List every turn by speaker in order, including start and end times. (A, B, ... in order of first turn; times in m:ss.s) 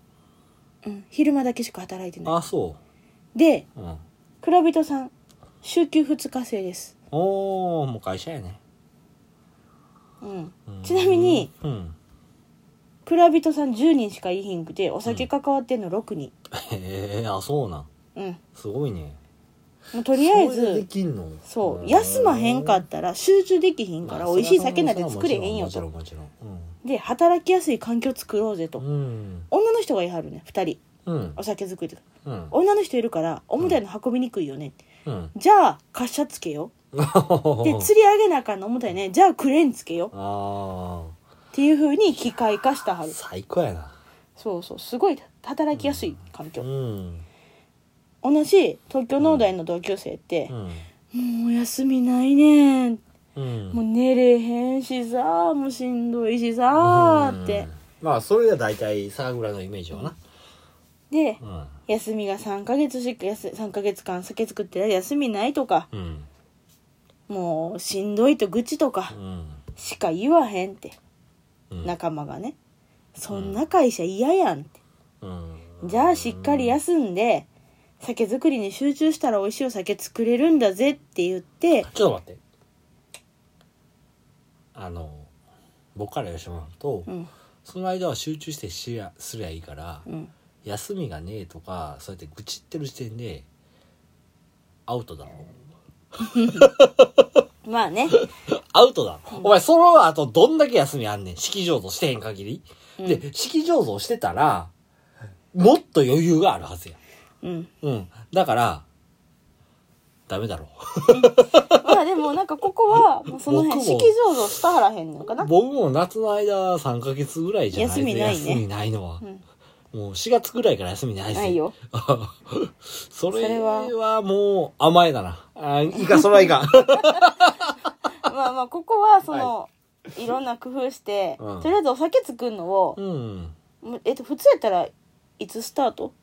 0:00.8-0:02.4 A
0:02.2-0:02.8 B
0:03.3-0:03.6 A
0:03.8-0:04.0 B
0:04.4-0:05.1 A
0:05.6-0:06.9 A
0:07.1-0:08.6 B
0:10.2-0:11.5 A
0:10.7-0:12.0 B
0:13.0-0:16.3 A
0:16.5-0:17.9 B
0:18.1-0:18.4 A
0:18.5-0:19.2 B
0:19.9-0:20.8 A
0:20.1-0:22.8 B
0:21.5-0:25.8 A
0:24.0-0:26.7 B
0:26.8-0:28.8 A
0:28.8-0:29.5 B
0:29.5-0:30.8 A
0:31.0-0:31.4 B
0:31.4-0:34.8 A
0:32.2-0:32.5 B
0:35.0-0:35.3 B
0:35.3-0:36.7 A
0:36.9-0:37.9 B
0:37.6-0:40.1 A
0:40.1-0:41.1 B
0:41.5-0:43.2 A
0:43.1-0:43.9 B
0:44.4-0:46.6 A
0:45.7-0:47.2 B
0:48.2-0:50.5 A
0:49.2-0:49.5 B
0:50.5-0:50.9 B
0:51.1-0:53.0 A
0:53.3-0:53.8 B
0:53.7-0:57.7 A
0:56.8-1:00.2 B
1:01.1-1:05.9 A
1:01.4-1:01.7 B
1:05.9-1:06.3 B
1:07.3-1:09.2 A
1:09.1-1:09.6 B
1:09.8-1:11.0 A
1:11.8-1:12.6 A
1:13.2-1:14.7 A
1:13.3-1:13.6 B
1:15.2-1:16.8 B
1:15.8-1:17.5 A
1:18.0-1:21.9 A
1:21.8-1:22.4 B
1:24.7-1:25.3 B
1:25.9-1:27.1 B
1:27.6-1:30.0 B
1:30.6-1:33.5 B
1:34.9-1:35.5 B
1:36.2-1:36.7 A
1:36.2-1:37.4 B
1:37.6-1:38.2 A
1:38.1-1:44.7 B
1:45.5-1:47.0 B
1:47.4-1:47.7 A
1:47.8-1:48.8 B
1:50.3-1:52.0 B
1:51.1-1:55.5 A
1:53.3-1:54.2 B
1:55.4-1:59.2 B
1:57.7-1:58.6 A
1:59.9-2:07.9 B
2:01.3-2:01.7 A
2:03.3-2:03.9 A
2:05.9-2:07.3 A
2:08.2-2:13.0 A
2:11.4-2:11.7 B
2:13.0-2:13.5 B
2:13.8-2:16.1 A